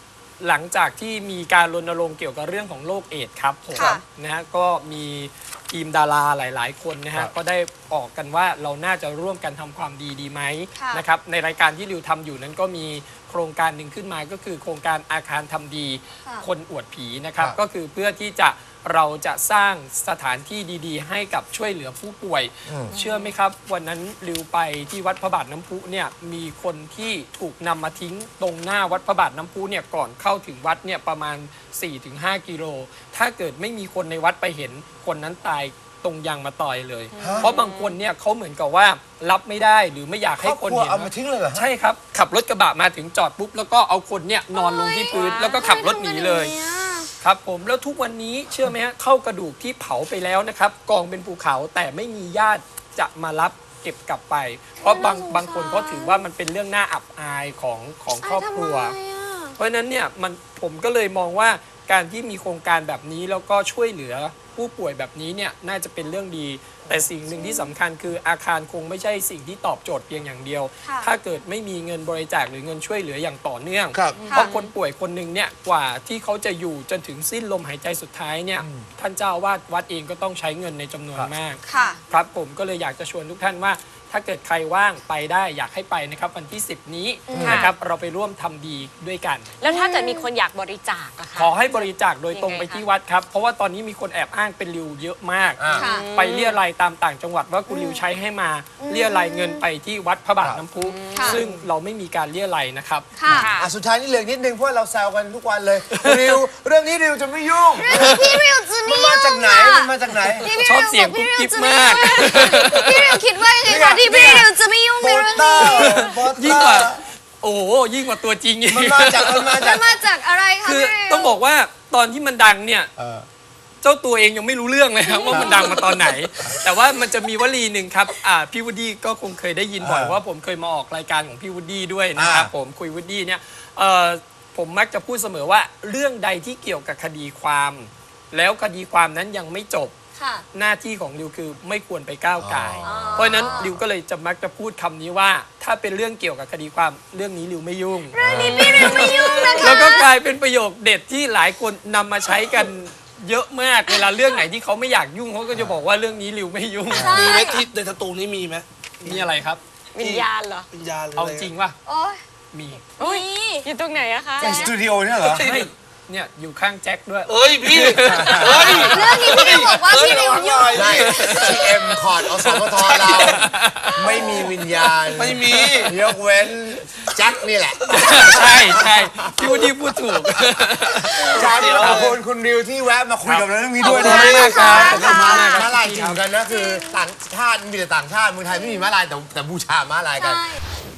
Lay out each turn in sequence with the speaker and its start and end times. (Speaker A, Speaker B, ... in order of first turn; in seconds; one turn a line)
Speaker A: 0.4-46.5
Speaker B: 3.7-4.0
Speaker B: 10.7-11.0
Speaker C: 22.6-22.9
Speaker D: 22.9-23.3
Speaker D: 37.1-38.0
Speaker C: 37.2-37.5
Speaker C: 40.4-41.7
Speaker B: 44.5-47.1
Speaker D: 45.1-45.8
Speaker A: 47.2-58.9
Speaker B: 54.8-56.3
Speaker B: 58.2-59.6
Speaker A: 59.6-89.5
Speaker B: 67.3-67.7
Speaker B: 70.8-71.1
Speaker C: 73.9-74.2
Speaker B: 74.2-74.5
Speaker C: 78.6-78.9
Speaker B: 81.7-82.0
Speaker B: 87.3-87.7
Speaker C: 87.3-87.7
Speaker D: 87.4-87.7
Speaker D: 89.6-92.8
Speaker B: 89.7-90.3
Speaker A: 91.3-103.4
Speaker C: 95.6-95.9
Speaker B: 95.7-96.1
Speaker D: 95.9-96.6
Speaker B: 97.7-98.0
Speaker B: 98.8-99.6
Speaker C: 100.4-100.7
Speaker D: 100.8-101.3
Speaker B: 101.1-101.4
Speaker B: 103.2-103.5
Speaker C: 103.3-110.5
Speaker D: 103.3-103.7
Speaker A: 105.9-106.4
Speaker B: 107.8-116.2
Speaker A: 107.9-108.3
Speaker A: 110.4-113.2
Speaker C: 113.6-117.0
Speaker A: 115.6-119.7
Speaker C: 118.7-119.9
Speaker B: 119.5-121.4
Speaker A: 120.6-122.9
Speaker C: 123.0-123.2
Speaker A: 123.8-139.9
Speaker B: 125.0-126.3
Speaker C: 125.3-125.7
Speaker C: 129.8-130.2
Speaker C: 132.1-132.5
Speaker B: 140.2-140.5
Speaker A: 140.5-157.2
Speaker C: 142.4-143.7
Speaker B: 142.8-143.8
Speaker B: 148.1-150.1
Speaker C: 148.2-149.0
Speaker D: 148.8-149.7
Speaker B: 153.9-154.2
Speaker B: 156.9-157.7
Speaker C: 156.9-157.2
Speaker E: 157.1-159.3
Speaker A: 159.0-159.6
Speaker D: 159.9-160.7
Speaker E: 160.0-161.5
Speaker A: 161.1-161.8
Speaker B: 161.8-162.2
Speaker A: 162.5-162.9
Speaker B: 163.0-163.7
Speaker D: 163.0-164.6
Speaker C: 164.4-165.5
Speaker B: 164.4-164.8
Speaker E: 165.2-165.7
Speaker A: 165.4-169.3
Speaker E: 167.3-173.5
Speaker C: 168.1-168.7
Speaker B: 168.7-171.5
Speaker C: 170.7-179.7
Speaker A: 170.9-171.6
Speaker A: 173.1-174.2
Speaker B: 173.9-174.4
Speaker E: 174.2-175.9
Speaker A: 177.9-181.9
Speaker C: 181.2-190.5
Speaker E: 181.3-182.2
Speaker A: 183.2-186.2
Speaker B: 183.8-185.7
Speaker E: 183.9-185.0
Speaker B: 186.5-187.1
Speaker B: 188.5-188.9
Speaker B: 190.2-190.6